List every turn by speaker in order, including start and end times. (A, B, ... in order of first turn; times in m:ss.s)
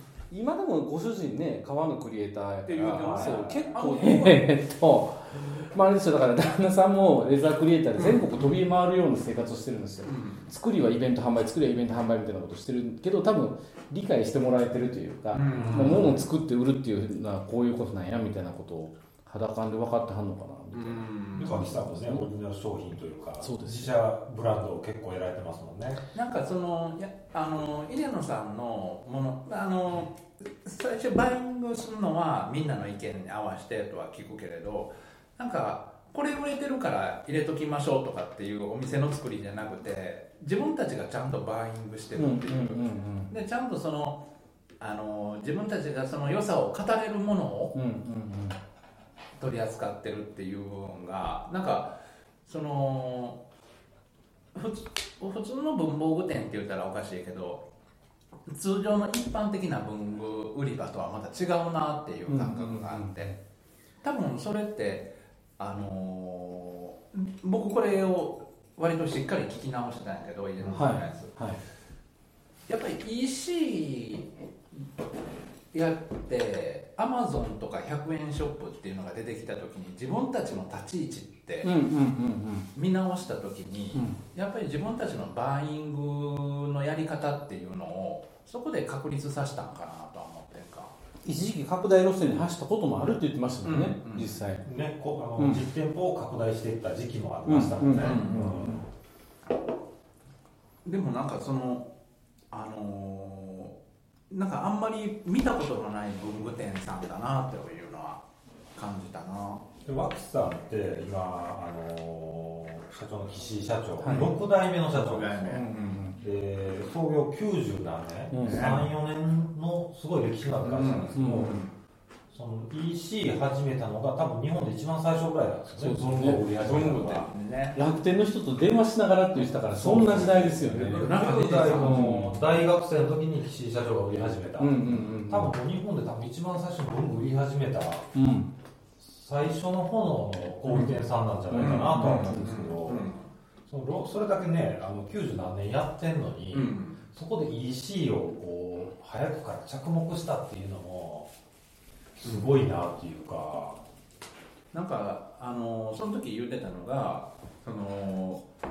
0:00.3-0:22.3 A
0:02.7-0:04.5 B
0:03.0-0:03.8 C
0:08.0-0:08.6 B
0:10.0-0:10.5 B
0:15.3-0:16.2 B
0:15.5-0:16.2 C
0:20.7-0:21.6 B
0:21.3-0:26.0 C
0:23.4-0:23.9 A
0:26.1-0:44.2 B
0:42.2-0:43.3 A
0:44.8-0:47.7 B
0:47.7-0:48.6 A
0:49.4-0:53.4 B
0:54.5-0:57.6 B
0:58.5-1:03.3 B
1:02.3-1:03.3 A
1:04.0-1:11.3 B
1:10.6-1:10.9 C
1:10.7-1:11.6 A
1:12.7-1:14.3 B
1:15.7-1:21.7 B
1:21.6-1:22.7 A
1:22.7-1:30.9 B
1:23.9-1:24.2 A
1:31.2-1:34.6 A
1:33.6-1:34.4 B
1:34.6-1:38.8 C
1:35.4-1:35.6 A
1:37.4-1:38.8 A
1:37.9-1:38.7 B
1:40.8-1:41.9 B
1:42.5-1:43.8 B
1:44.3-1:48.2 B
1:48.7-1:49.6 B
1:49.8-1:55.6 C
1:54.0-1:54.3 A
1:54.0-1:56.1 B
1:55.5-1:56.2 A
1:56.2-2:01.6 C
1:58.3-1:58.9 A
1:58.4-1:58.8 B
2:00.7-2:01.7 B
2:01.2-2:01.6 A
2:02.3-2:07.3 C
2:05.8-2:06.4 A
2:06.5-2:07.8 B
2:07.7-2:11.1 A
2:09.8-2:18.0 C
2:09.9-2:12.2 B
2:11.7-2:12.4 A
2:14.6-2:15.5 A
2:18.1-2:18.5 A
2:19.0-2:23.1 C
2:20.7-2:23.3 B
2:21.5-2:22.7 A
2:23.7-2:31.3 C
2:26.5-2:27.0 B
2:32.2-2:33.8 C
2:34.7-2:38.4 B